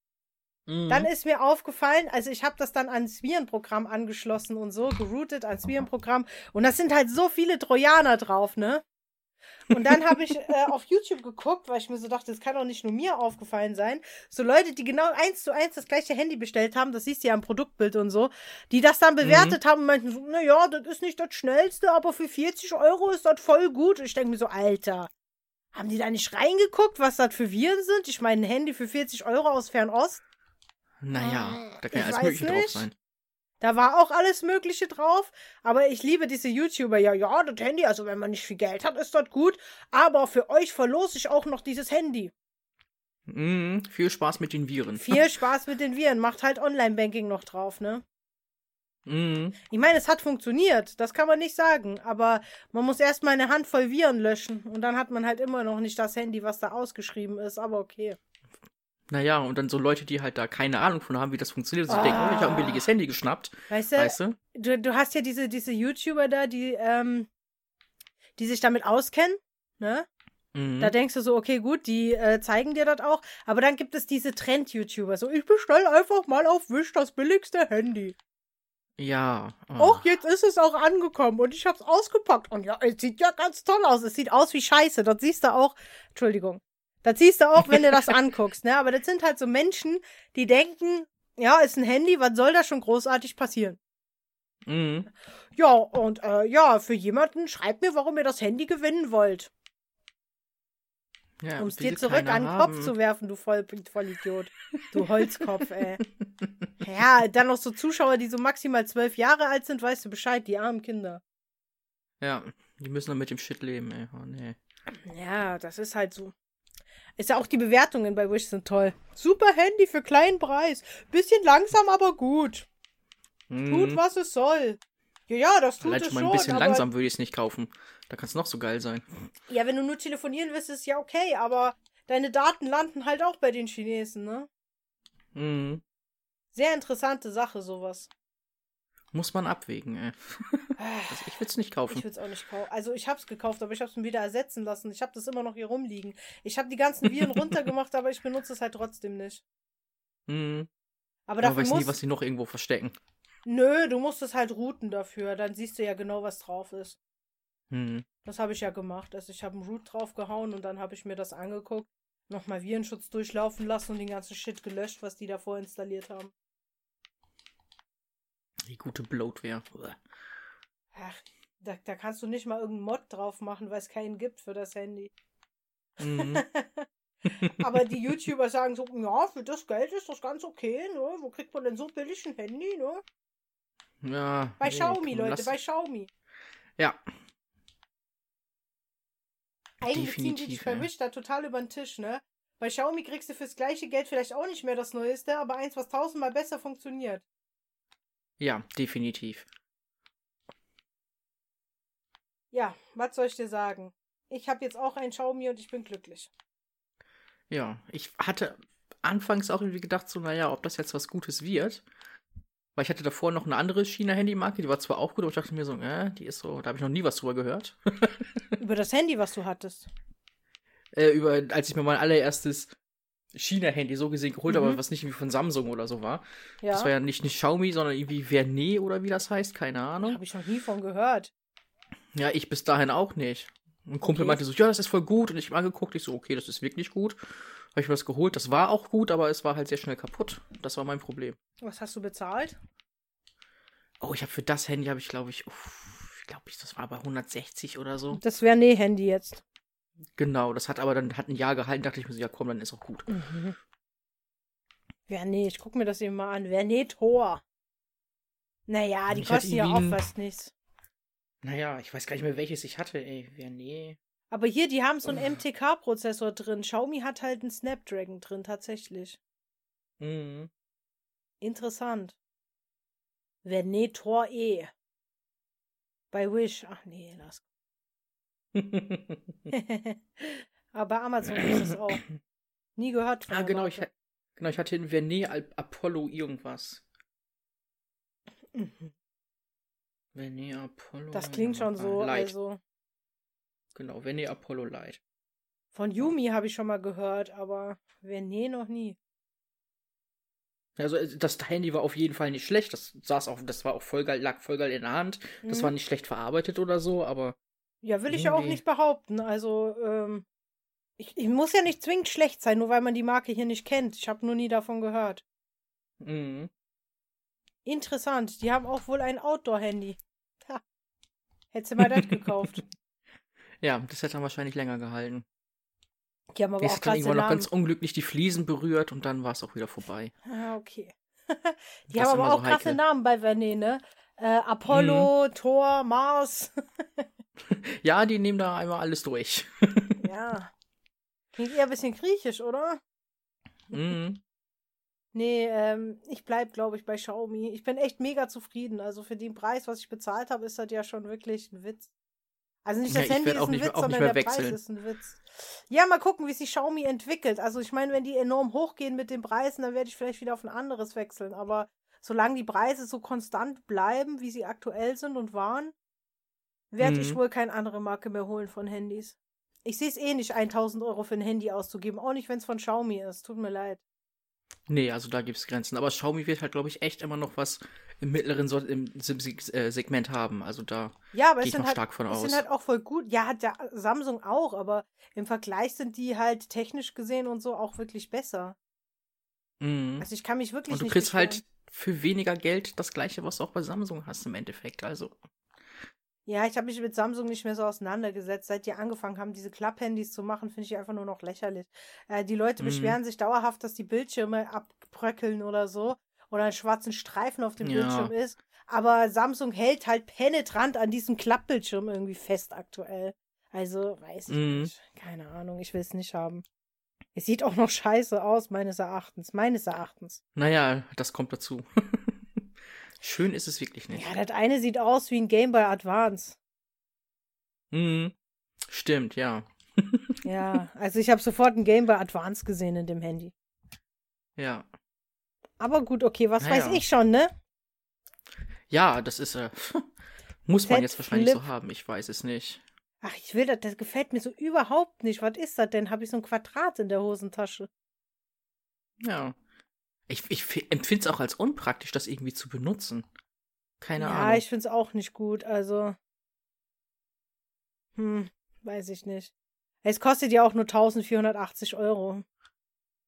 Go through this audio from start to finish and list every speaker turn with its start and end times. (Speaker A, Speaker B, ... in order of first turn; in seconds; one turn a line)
Speaker A: 0.7-1.1
Speaker B: 0.9-8.8
Speaker B: 9.7-25.1
Speaker A: 9.7-10.2
Speaker A: 19.2-19.6
Speaker B: 25.7-30.2
Speaker A: 31.0-32.9
Speaker B: 31.1-32.9
Speaker B: 33.6-42.3
Speaker A: 43.3-45.2
Speaker B: 45.0-48.0
Speaker A: 49.0-49.6
Speaker B: 49.7-58.2
Speaker A: 59.1-64.4
Speaker B: 61.9-62.8
Speaker B: 63.7-67.3
Speaker B: 68.4-70.1
Speaker A: 70.5-70.9
Speaker B: 70.8-78.2
Speaker A: 79.0-80.0
Speaker B: 79.8-93.8
Speaker A: 87.6-88.1
Speaker A: 94.7-95.1
Speaker B: 95.5-99.5
Speaker A: 101.4-102.9
Speaker B: 101.6-106.0
Speaker A: 104.8-105.5
Speaker A: 106.2-106.7
Speaker B: 106.8-111.2
Speaker A: 112.2-114.6
Speaker B: 115.0-116.3
Speaker B: 117.2-122.7
Speaker A: 123.5-124.0
Speaker B: 123.7-126.8
Speaker A: 125.8-129.1
Speaker B: 129.5-134.5
Speaker A: 135.3-135.8
Speaker B: 136.5-138.1
Speaker A: 139.1-142.0
Speaker B: 140.8-141.4
Speaker B: 141.9-149.4
Speaker A: 147.1-147.7
Speaker A: 150.3-150.7
Speaker B: 151.3-152.0
Speaker A: 151.4-152.9
Speaker B: 153.4-157.0
Speaker A: 157.7-158.1
Speaker B: 158.2-166.3
Speaker A: 168.6-170.0
Speaker B: 170.9-175.1
Speaker A: 176.0-176.4
Speaker B: 176.0-176.9
Speaker A: 177.2-177.6
Speaker B: 177.4-183.0
Speaker A: 184.0-185.6
Speaker B: 184.6-186.1
Speaker A: 186.8-187.0
Speaker B: 189.8-197.2
Speaker A: 189.9-190.9
Speaker A: 198.4-199.5
Speaker B: 202.5-206.3
Speaker A: 207.5-211.8
Speaker A: 212.8-218.6
Speaker B: 218.6-219.9
Speaker A: 220.9-222.7
Speaker A: 223.3-230.2
Speaker B: 224.5-224.8
Speaker B: 226.6-226.9
Speaker B: 230.0-231.3
Speaker A: 232.1-241.4
Speaker B: 234.0-234.4
Speaker B: 241.6-242.6
Speaker A: 244.0-248.2
Speaker B: 248.1-249.4
Speaker A: 250.2-253.2
Speaker B: 253.1-253.6
Speaker B: 255.1-257.4
Speaker B: 258.7-260.5
Speaker A: 259.1-260.0
Speaker A: 261.4-264.0
Speaker B: 264.3-269.2
Speaker A: 265.1-265.3
Speaker A: 270.0-270.5
Speaker B: 271.4-272.2
Speaker B: 273.4-274.7
Speaker B: 276.1-277.4
Speaker A: 278.5-279.3
Speaker B: 279.5-282.0
Speaker A: 281.3-282.0
Speaker B: 282.8-283.9
Speaker A: 283.3-286.8
Speaker B: 288.5-288.9
Speaker A: 290.1-292.3
Speaker B: 291.1-292.6
Speaker A: 293.7-295.0
Speaker B: 295.7-299.0
Speaker A: 300.8-307.4
Speaker B: 305.4-305.7
Speaker B: 307.8-310.2
Speaker A: 308.1-308.6
Speaker B: 311.0-315.2
Speaker A: 316.0-316.5
Speaker B: 317.6-320.6
Speaker B: 321.5-322.6
Speaker A: 321.8-322.6
Speaker A: 323.6-325.2
Speaker B: 326.3-327.5
Speaker A: 326.6-330.1
Speaker B: 330.2-337.0
Speaker A: 331.9-332.8
Speaker A: 334.7-335.1
Speaker A: 337.4-340.0
Speaker B: 340.0-340.5
Speaker B: 341.3-342.8
Speaker A: 343.7-344.2
Speaker B: 345.1-351.9
Speaker B: 352.6-365.7
Speaker A: 352.9-354.6
Speaker B: 366.7-373.8
Speaker A: 366.8-367.2
Speaker A: 374.7-382.4
Speaker B: 381.1-388.6
Speaker A: 389.6-390.1
Speaker B: 390.0-391.4
Speaker A: 390.7-395.2
Speaker B: 396.2-416.4
Speaker A: 402.6-403.0
Speaker A: 407.6-408.1
Speaker A: 414.3-414.7
Speaker B: 417.1-420.2
Speaker A: 420.4-422.5
Speaker A: 423.0-424.1
Speaker B: 423.9-426.4
Speaker A: 427.7-428.1
Speaker A: 428.7-430.2
Speaker B: 430.2-433.3
Speaker A: 434.4-434.7
Speaker B: 435.6-437.3
Speaker A: 436.4-436.8
Speaker A: 438.7-439.9
Speaker A: 440.4-442.6
Speaker B: 440.6-441.4
Speaker B: 443.0-447.7
Speaker A: 449.0-449.4
Speaker A: 450.1-453.1
Speaker A: 453.8-454.4
Speaker B: 454.0-455.9
Speaker B: 458.0-459.3
Speaker B: 459.8-462.2